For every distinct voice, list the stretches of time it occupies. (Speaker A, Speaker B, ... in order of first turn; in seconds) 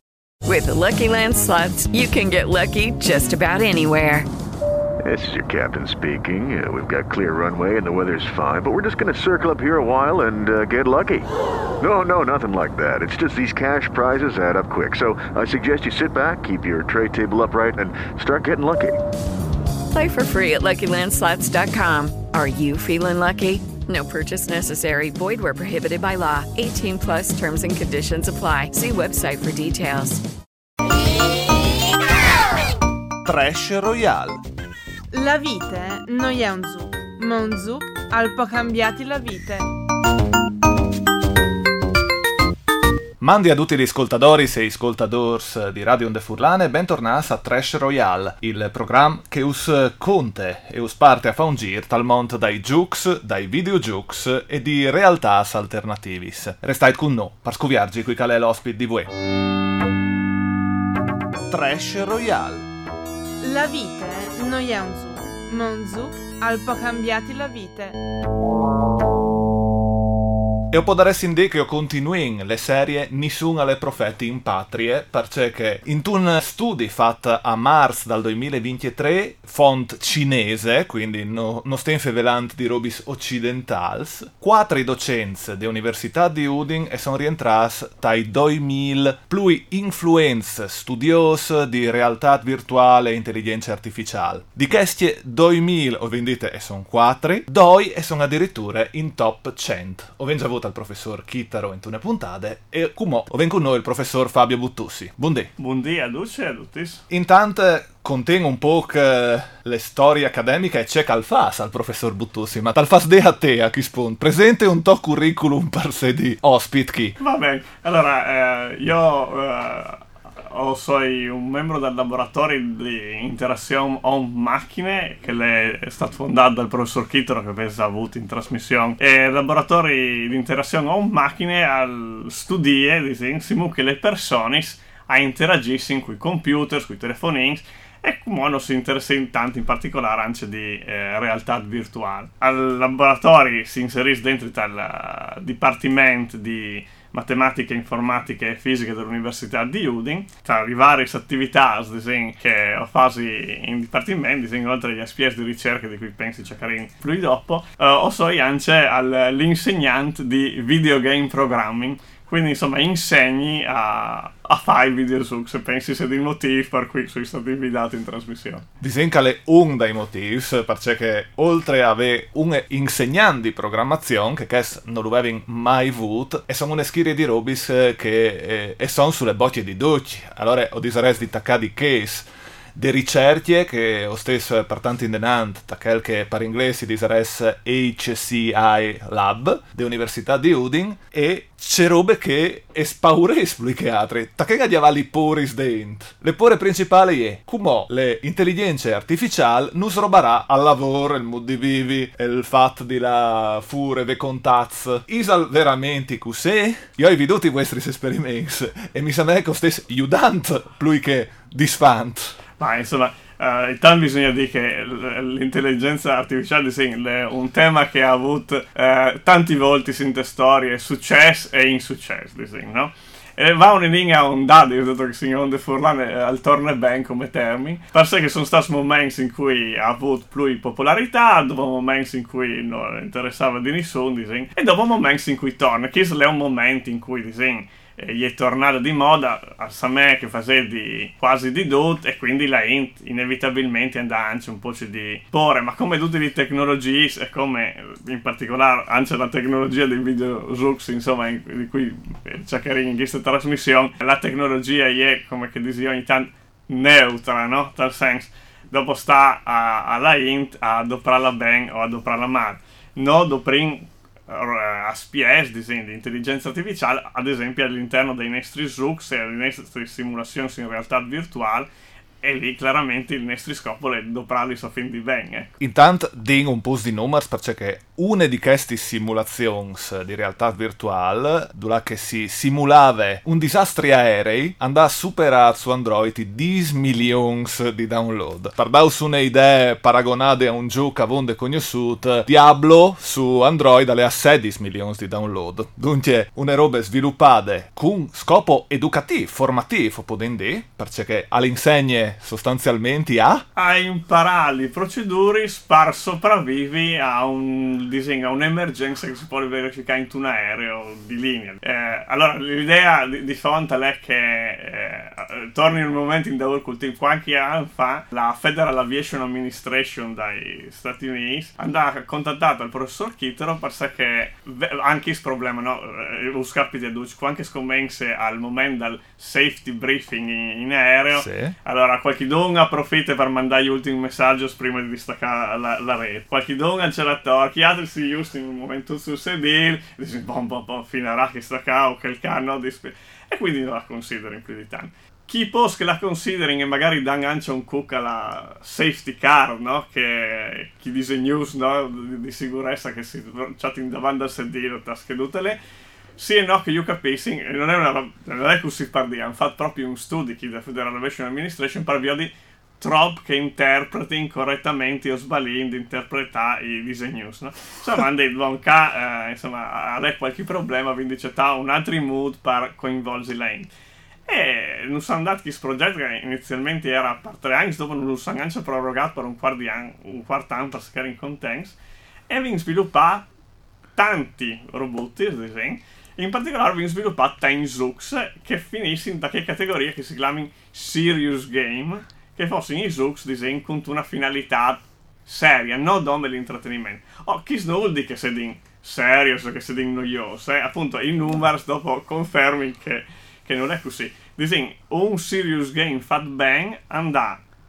Speaker A: 0.5-4.3, 19.9-30.2
Speaker B: 5.0-11.3, 11.8-19.0
Speaker C: 33.2-34.4, 43.2-59.1, 61.5-62.6, 70.7-105.5, 107.1-117.2, 168.8-212.4, 275.6-303.4, 331.1-331.5
Speaker D: 35.1-39.7, 63.4-68.0
Speaker E: 105.6-107.0, 117.2-168.7, 212.6-271.7, 272.2-275.5, 303.6-355.6, 356.2-373.7, 374.3-381.8, 382.3-383.3, 384.0-407.4